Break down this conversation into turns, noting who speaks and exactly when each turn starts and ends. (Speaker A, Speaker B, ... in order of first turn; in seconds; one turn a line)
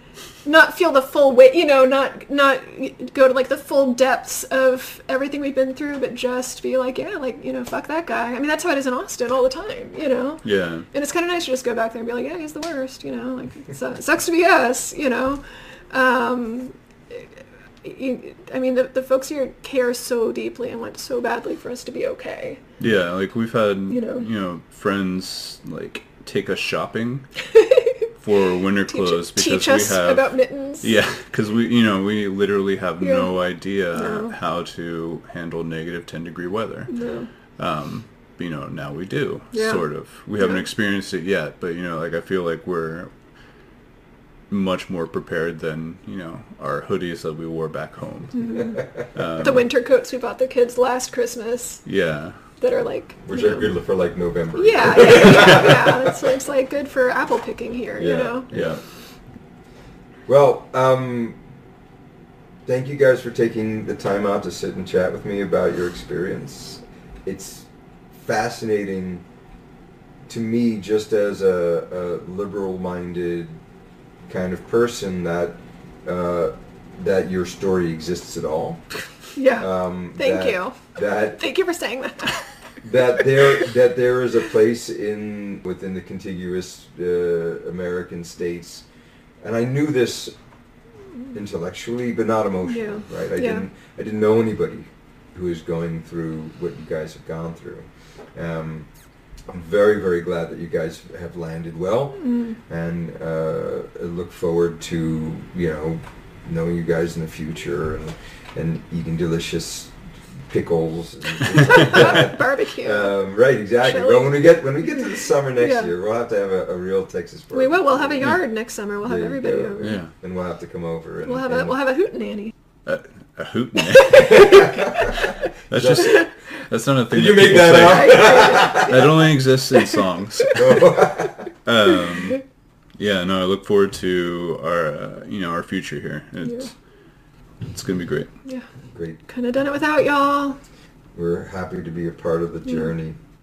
Speaker A: 0.4-17.3
Speaker B: 10.4-10.9
Speaker A: 17.8-22.6
Speaker B: 22.8-27.5
Speaker A: 23.9-24.3
Speaker A: 27.6-27.9
Speaker B: 28.2-43.3
Speaker A: 28.9-30.9
Speaker A: 33.0-33.3
Speaker A: 33.9-34.4
Speaker A: 36.9-37.3
Speaker A: 39.5-39.9
Speaker A: 40.4-40.7
Speaker B: 44.5-49.7
Speaker A: 48.4-48.8
Speaker A: 49.4-51.9
Speaker B: 51.9-52.4
Speaker A: 52.5-53.7
Speaker C: 53.2-56.2
Speaker A: 54.5-58.5
Speaker C: 58.0-58.8
Speaker B: 58.5-58.8
Speaker C: 60.3-61.4
Speaker C: 62.6-69.2
Speaker C: 70.3-73.6
Speaker C: 74.3-78.9
Speaker A: 79.3-82.5
Speaker C: 79.6-81.4
Speaker C: 82.8-88.9
Speaker C: 89.4-90.4
Speaker C: 91.3-98.9
Speaker A: 92.7-93.7
Speaker C: 99.5-118.4
Speaker A: 102.2-102.6
Speaker A: 111.5-113.2
Speaker A: 113.8-114.6
Speaker A: 115.6-115.9
Speaker A: 117.5-120.0
Speaker C: 119.0-121.8
Speaker B: 119.8-120.1
Speaker A: 121.2-122.5
Speaker B: 122.9-124.6
Speaker A: 124.0-125.3
Speaker B: 125.7-131.0
Speaker C: 125.7-126.2
Speaker A: 126.0-126.3
Speaker C: 127.1-129.2
Speaker A: 127.8-129.1
Speaker C: 130.5-131.5
Speaker B: 131.7-132.5
Speaker B: 133.0-136.8
Speaker A: 136.4-136.7
Speaker B: 137.7-138.3
Speaker C: 138.9-139.2
Speaker A: 139.3-140.6
Speaker C: 141.2-143.2
Speaker A: 142.7-142.9